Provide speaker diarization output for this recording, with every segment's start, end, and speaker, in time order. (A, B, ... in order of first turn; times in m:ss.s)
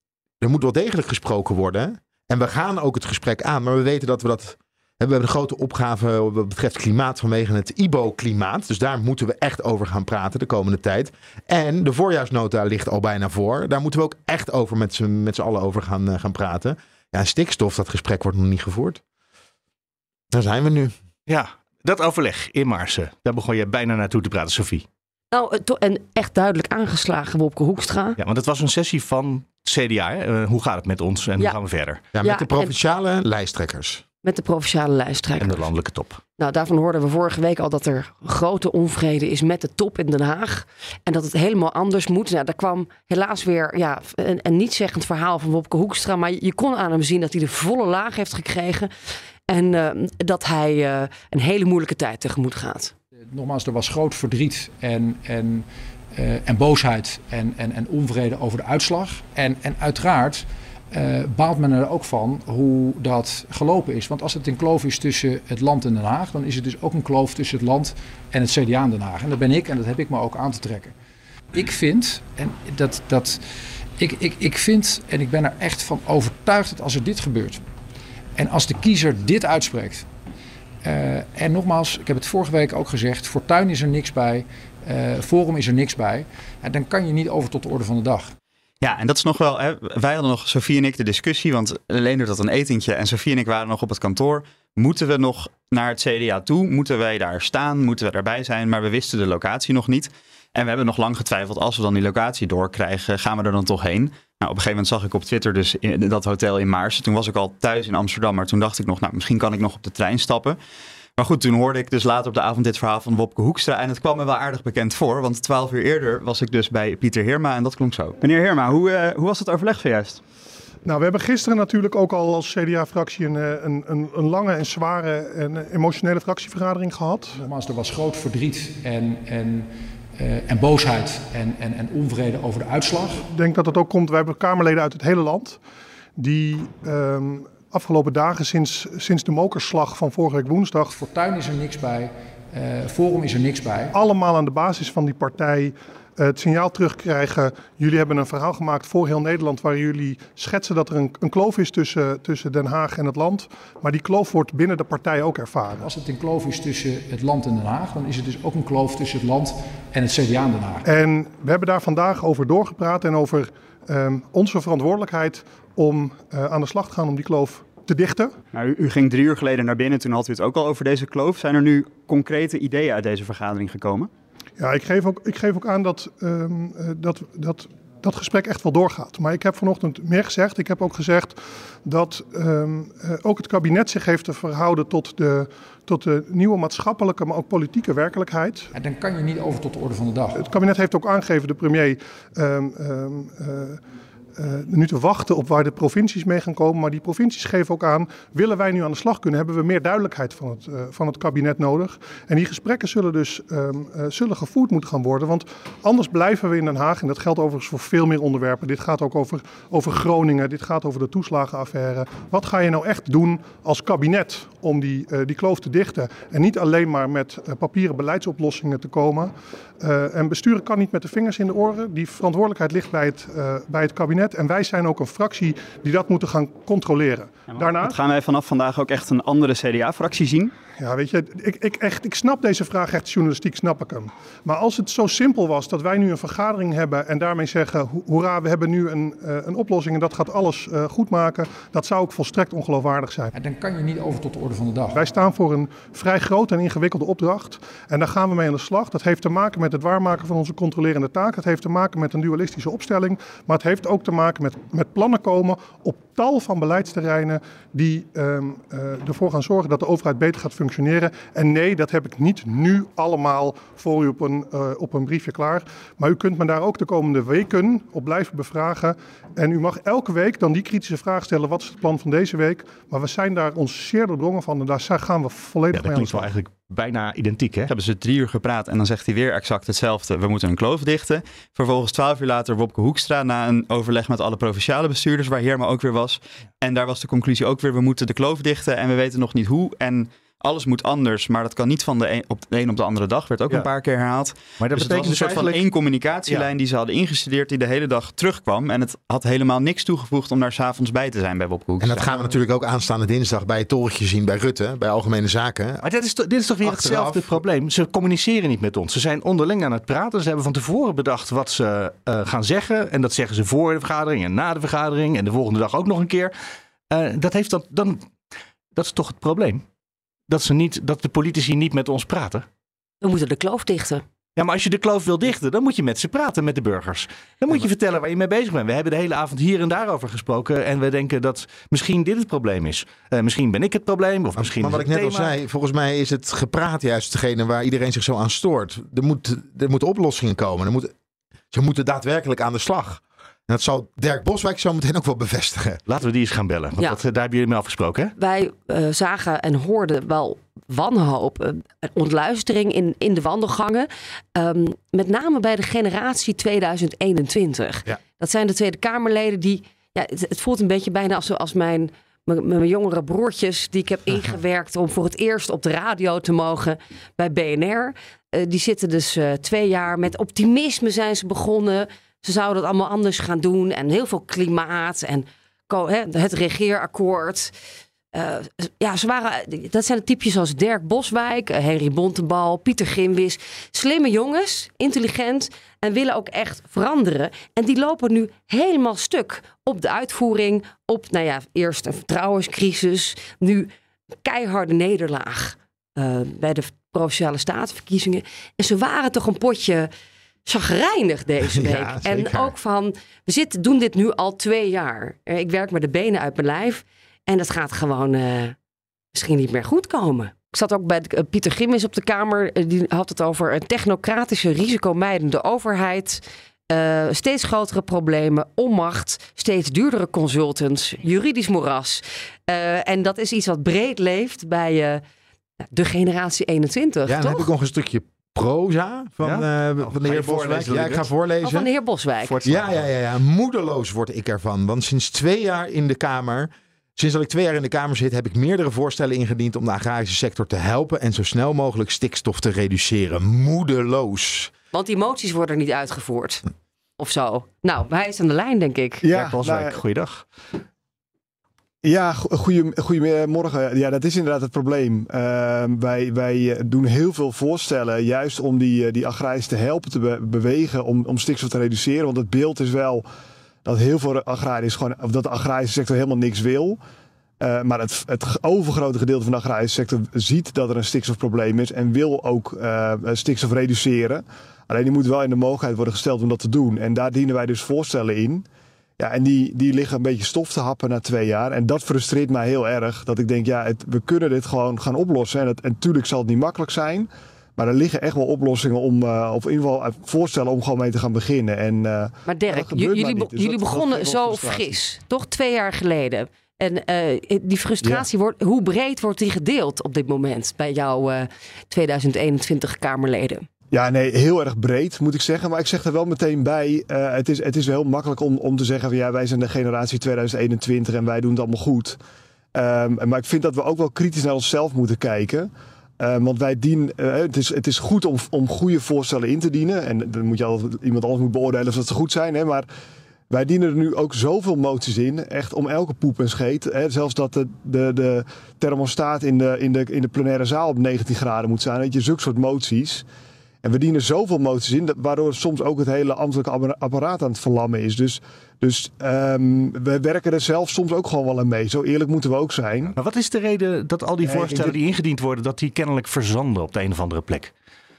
0:00.4-0:19.0 A
0:20.3-0:20.9 A
0:21.3-0:24.8 B
0:25.3-0:28.2 C
0:28.2-0:32.1 B
0:32.1-0:34.0 A
0:32.2-0:32.7 C
0:34.2-0:35.7 C
0:35.4-0:36.2 B
0:36.4-0:48.9 C
0:49.5-0:52.9 C
0:53.3-1:10.9 D
1:11.5-1:13.4 D
1:14.0-1:17.6 D
1:18.4-1:20.1 D
1:20.8-1:28.3 D
1:28.8-1:50.6 E
1:51.2-2:00.2 E
2:00.8-2:07.4 F
2:07.4-2:13.2 D
2:13.3-2:15.6 F
2:16.2-2:21.0 F
2:21.0-2:23.9 D
2:23.9-2:35.9 F
2:35.7-2:40.9 D
2:40.9-2:48.3 F
2:48.5-2:54.1 E
2:54.6-3:08.7 F
3:08.7-3:10.5 D
3:10.4-3:13.8 F
3:14.4-3:48.0 F
3:47.5-3:50.5 E
3:50.8-4:03.3 F
4:03.4-4:05.0 D
4:04.9-4:36.3 F
4:35.7-4:37.7 B
4:37.7-5:02.1 E
4:54.6-4:55.6 B
5:01.8-5:05.8 A
5:05.8-5:16.3 B
5:06.6-5:07.4 A
5:16.9-5:18.1 B
5:18.8-5:19.6 B
5:20.3-5:22.5 B
5:23.0-5:24.0 C
5:24.4-5:35.3 B
5:34.4-5:40.9 A
5:41.5-5:45.8 A
5:45.9-5:48.1 B
5:48.2-6:17.5 C
6:18.1-6:33.7 C
6:34.2-6:39.9 C
6:40.5-6:48.6 C
6:41.4-6:42.5 A
6:49.1-7:05.0 C
7:05.7-7:07.5 C
7:07.1-7:11.7 A
7:09.2-7:11.1 B
7:11.4-7:12.4 C
7:12.2-7:12.8 B
7:12.4-7:24.5 A
7:24.7-7:26.4 C
7:27.0-7:29.1 C
7:29.0-7:29.8 G
7:29.1-7:30.3 B
7:31.8-7:43.0 G
7:43.6-7:46.8 G
7:47.4-7:58.4 G
7:59.0-8:14.8 G
8:12.3-8:23.4 C
8:23.7-8:32.0 G
8:32.6-8:42.7 G
8:43.3-8:53.0 G
8:53.6-9:02.9 G
9:03.0-9:07.5 B
9:04.2-9:04.8 G